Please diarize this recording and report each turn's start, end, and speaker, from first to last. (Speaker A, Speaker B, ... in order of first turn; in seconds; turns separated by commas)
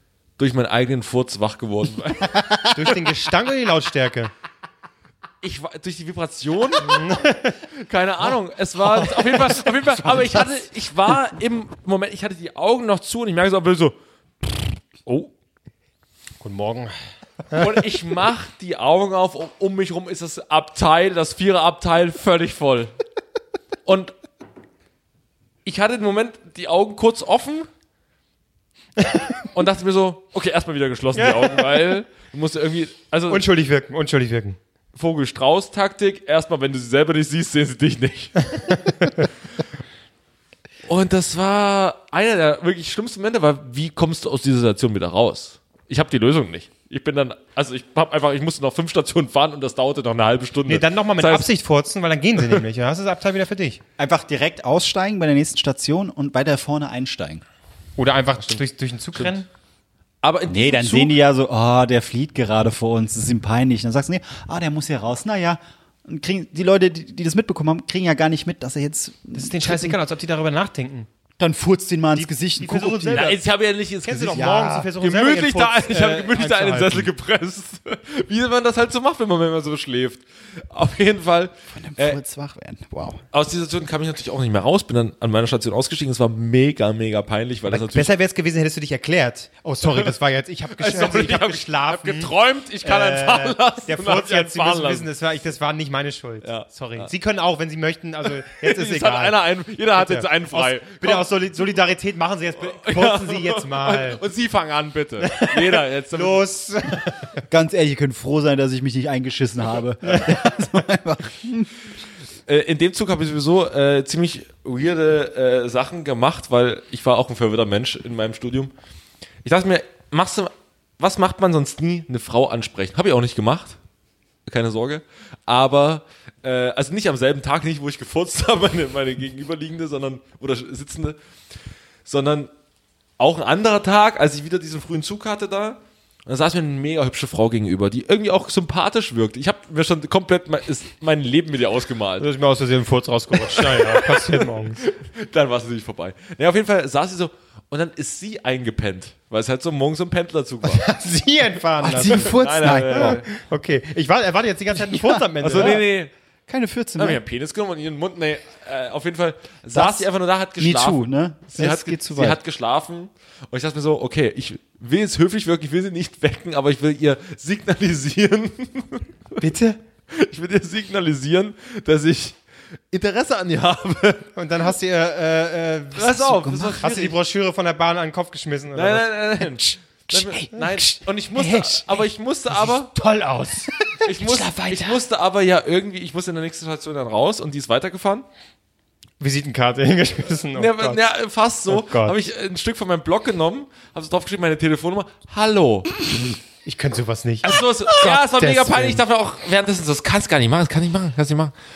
Speaker A: 0.4-2.7, Speaker B: 2.4-2.7, Speaker C: 2.7-4.3, Speaker A: 5.4-7.0, Speaker C: 6.8-7.6, Speaker A: 7.8-15.3, Speaker C: 16.4-16.9, Speaker A: 17.5-22.9, Speaker A: 23.9-24.1, Speaker A: 25.6-27.7, Speaker A: 29.5-33.4, Speaker C: 31.1-31.9, Speaker C: 33.3-34.6, Speaker A: 35.0-38.8, Speaker A: 40.9-51.5, Speaker C: 50.7-53.8, Speaker B: 54.0-57.4, Speaker C: 58.0-59.5, Speaker A: 60.2-61.2, Speaker B: 60.5-70.0, Speaker C: 69.4-71.1, Speaker B: 71.4-73.3, Speaker C: 72.1-73.4, Speaker A: 73.1-82.2, Speaker C: 74.0-77.1, Speaker B: 74.3-74.9, Speaker B: 81.7-83.2, Speaker A: 83.3-88.1, Speaker C: 87.7-92.3, Speaker A: 89.8-90.1, Speaker A: 90.8-95.1, Speaker C: 92.8-99.4, Speaker A: 96.4-97.1, Speaker A: 98.5-101.3, Speaker C: 100.0-104.2, Speaker A: 102.6-106.4, Speaker C: 105.2-107.2, Speaker B: 107.5-111.9, Speaker A: 112.5-118.7, Speaker A: 119.4-123.8, Speaker A: 124.5-131.2, Speaker A: 132.1-132.5, Speaker A: 133.2-142.3, Speaker C: 142.2-144.8, Speaker A: 143.5-150.8, Speaker C: 150.6-155.8, Speaker B: 151.8-153.2, Speaker A: 152.1-153.3, Speaker B: 154.7-155.8, Speaker A: 155.4-156.1, Speaker B: 156.5-157.2, Speaker A: 157.0-169.1, Speaker B: 159.7-162.4, Speaker C: 169.4-169.8, Speaker A: 170.1-172.4, Speaker A: 172.9-174.3, Speaker C: 174.4-176.2, Speaker A: 176.0-177.1, Speaker B: 176.0-177.1, Speaker C: 176.8-179.1, Speaker A: 178.8-182.9, Speaker B: 180.1-180.8, Speaker C: 181.4-181.8, Speaker C: 182.9-183.9, Speaker B: 183.0-185.0, Speaker A: 184.0-188.3, Speaker C: 189.2-191.0, Speaker A: 190.6-196.1, Speaker C: 191.7-192.2, Speaker C: 196.6-199.0, Speaker A: 197.4-201.5